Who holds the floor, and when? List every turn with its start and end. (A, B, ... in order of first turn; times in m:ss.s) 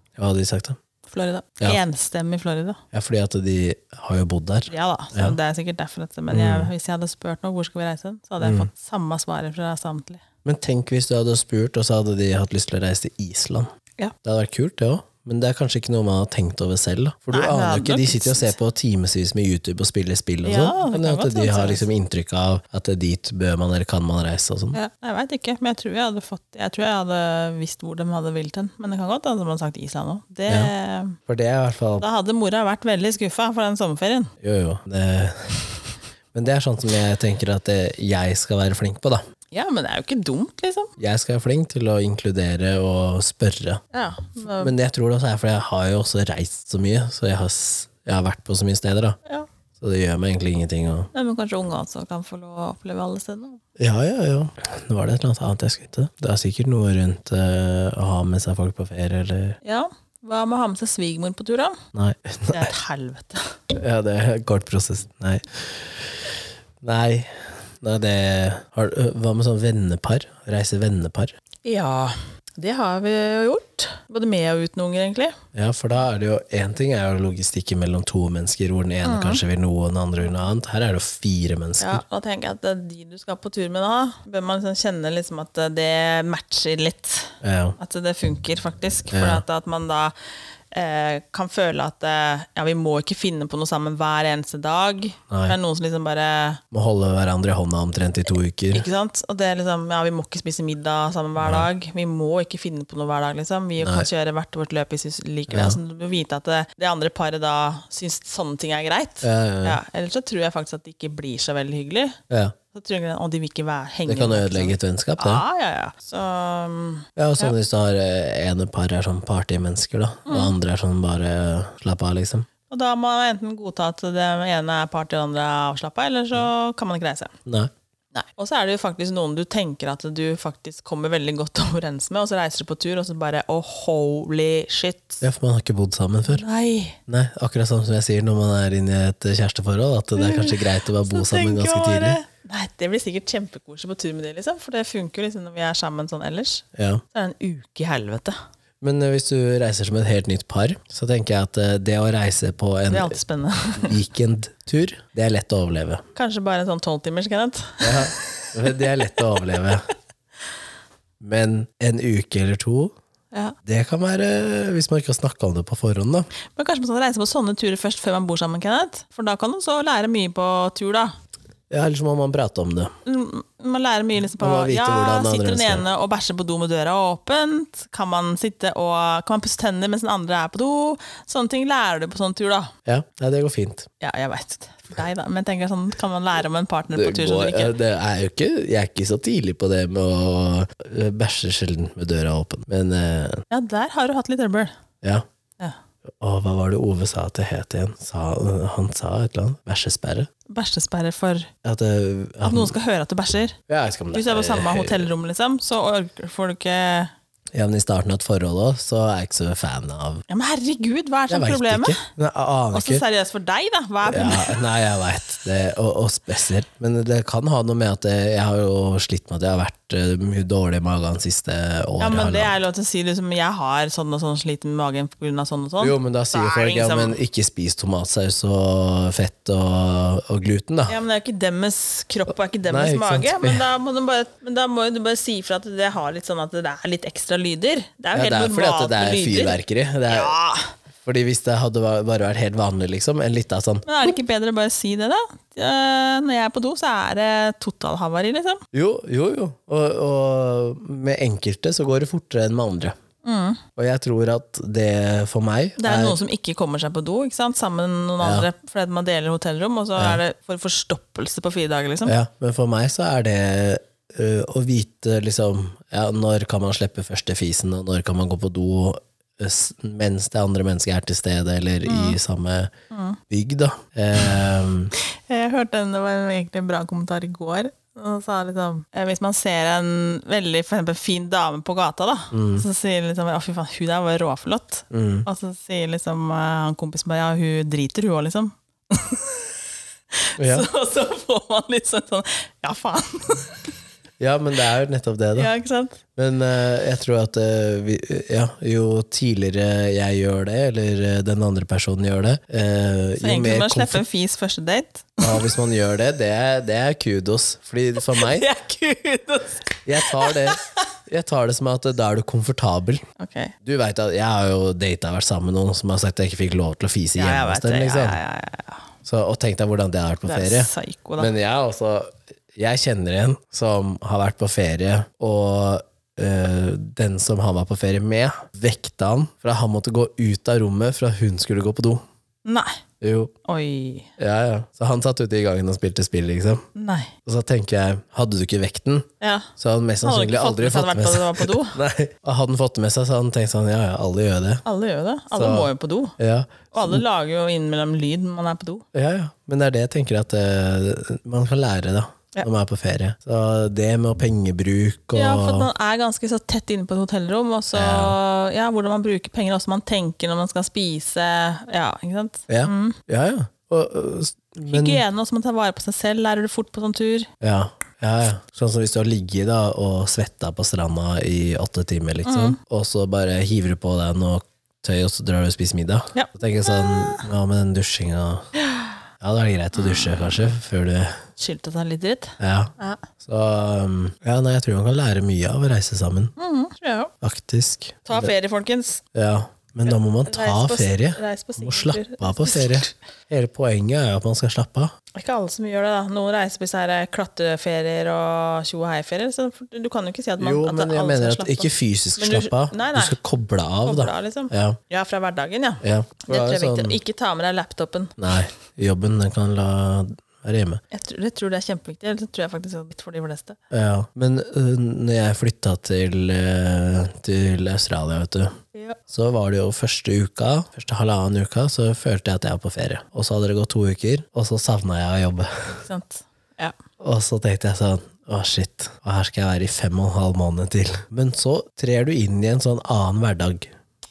0:00.2-0:00.8 A
0:01.1-0:02.8 B
0:02.9-0:05.4 A
0:04.7-0:10.2 B
0:06.3-0:06.7 A
0:08.4-0:08.7 A
0:10.4-0:13.7 A
0:14.2-0:24.8 A
0:17.3-0:18.5 B
0:20.4-0:21.9 B
0:24.7-0:31.2 B
0:31.3-0:32.0 A
0:32.0-0:34.3 B
0:34.4-0:35.6 A
0:36.3-0:39.2 A
0:39.5-0:40.9 B
0:41.0-0:43.8 A
0:43.9-0:44.7 B
0:44.6-0:49.2 A
0:49.8-0:51.1 A
0:51.1-0:53.6 B
0:53.8-0:59.6 A
0:59.6-1:01.8 B
1:01.9-1:02.7 A
1:02.5-1:03.6 B
1:03.7-1:11.3 A
1:11.6-1:15.4 B
1:15.5-1:22.0 A
1:19.0-1:19.4 B
1:21.8-1:30.1 B
1:27.4-1:27.8 A
1:29.1-1:29.4 A
1:30.7-1:36.6 B
1:35.3-1:35.6 A
1:36.7-1:38.9 A
1:38.7-1:52.2 B
1:41.4-1:41.7 A
1:43.8-1:44.1 A
1:45.5-1:45.8 A
1:49.2-1:49.8 A
1:52.3-1:52.5 A
1:52.7-1:57.5 B
1:54.0-1:55.4 A
1:57.2-2:02.5 A
2:00.2-2:00.5 B
2:02.7-2:07.3 B
2:07.4-2:07.7 A
2:08.1-2:15.2 B
2:15.2-2:16.4 A
2:16.3-2:17.0 B
2:17.1-2:22.2 A
2:20.2-2:28.4 B
2:26.7-2:27.0 A
2:28.8-2:33.2 A
2:32.9-2:34.0 B
2:33.8-2:36.0 A
2:36.1-2:39.7 B
2:37.8-2:39.9 A
2:41.2-2:42.9 A
2:43.6-2:46.3 A
2:46.5-2:51.1 B
2:51.7-2:52.9 A
2:53.0-3:02.7 B
2:54.4-2:55.8 A
3:02.8-3:03.9 A
3:04.0-3:07.7 B
3:06.9-3:13.4 A
3:13.5-3:14.7 B
3:16.2-3:20.3 A
3:20.5-3:21.5 B
3:21.6-3:22.7 A
3:22.4-3:23.6 B
3:23.7-3:25.1 A
3:24.1-3:27.1 B
3:27.5-3:30.2 A
3:30.3-3:32.1 B
3:31.3-3:33.0 A
3:32.7-3:34.6 B
3:34.0-3:42.5 A
3:42.0-3:47.2 B
3:45.8-3:51.0 A
3:50.9-4:00.7 B
3:52.7-3:53.6 A
3:58.1-4:00.3 A
4:01.0-4:03.8 A
4:03.8-4:08.6 B
4:08.7-4:12.9 A
4:13.2-4:13.6 B
4:13.8-4:16.2 A
4:15.8-4:22.2 B
4:18.2-4:18.5 A
4:22.0-4:32.7 A
4:31.8-4:32.2 B
4:32.9-4:33.2 B
4:33.3-4:34.9 A
4:34.9-4:49.5 B
4:42.3-4:42.6 A
4:44.9-4:45.3 A
4:50.2-4:53.7 B
4:50.4-4:50.7 A
4:54.2-4:55.5 A
4:55.4-4:56.0 B
4:56.1-5:04.0 A
5:03.2-5:05.4 B
5:05.2-5:08.5 A
5:08.0-5:10.8 B
5:09.8-5:13.0 A
5:13.2-5:13.5 B
5:13.6-5:18.2 A
5:17.2-5:18.8 B
5:19.0-5:32.0 A
5:20.2-5:21.3 B
5:32.4-5:32.8 B
5:33.0-5:33.3 A
5:33.4-5:34.1 B
5:34.2-5:36.7 A
5:36.7-5:37.1 B
5:37.2-5:44.6 A
5:39.2-5:39.5 B
5:40.0-5:41.8 B
5:44.6-5:46.1 B
5:45.3-5:47.0 A
5:46.7-5:48.8 B
5:48.9-5:55.7 A
5:55.1-6:03.0 B
5:57.7-5:58.2 A
6:02.5-6:05.0 A
6:04.7-6:07.3 B
6:07.4-6:18.5 A
6:12.2-6:12.6 B
6:16.1-6:17.2 B
6:18.6-6:18.9 B
6:19.2-6:21.2 A
6:19.7-6:20.4 B
6:21.4-6:23.0 B
6:22.4-6:26.3 A
6:26.4-6:27.1 B
6:27.2-6:28.3 A
6:28.1-6:29.0 B
6:29.1-6:34.9 A
6:29.9-6:32.9 B
6:35.1-6:43.2 B
6:40.4-6:44.8 A
6:43.8-6:48.2 B
6:45.8-6:47.0 A
6:48.2-6:50.8 A
6:50.9-6:53.6 B
6:53.7-6:58.5 A
6:59.1-7:05.8 A
7:05.8-7:06.7 B
7:07.0-7:13.7 A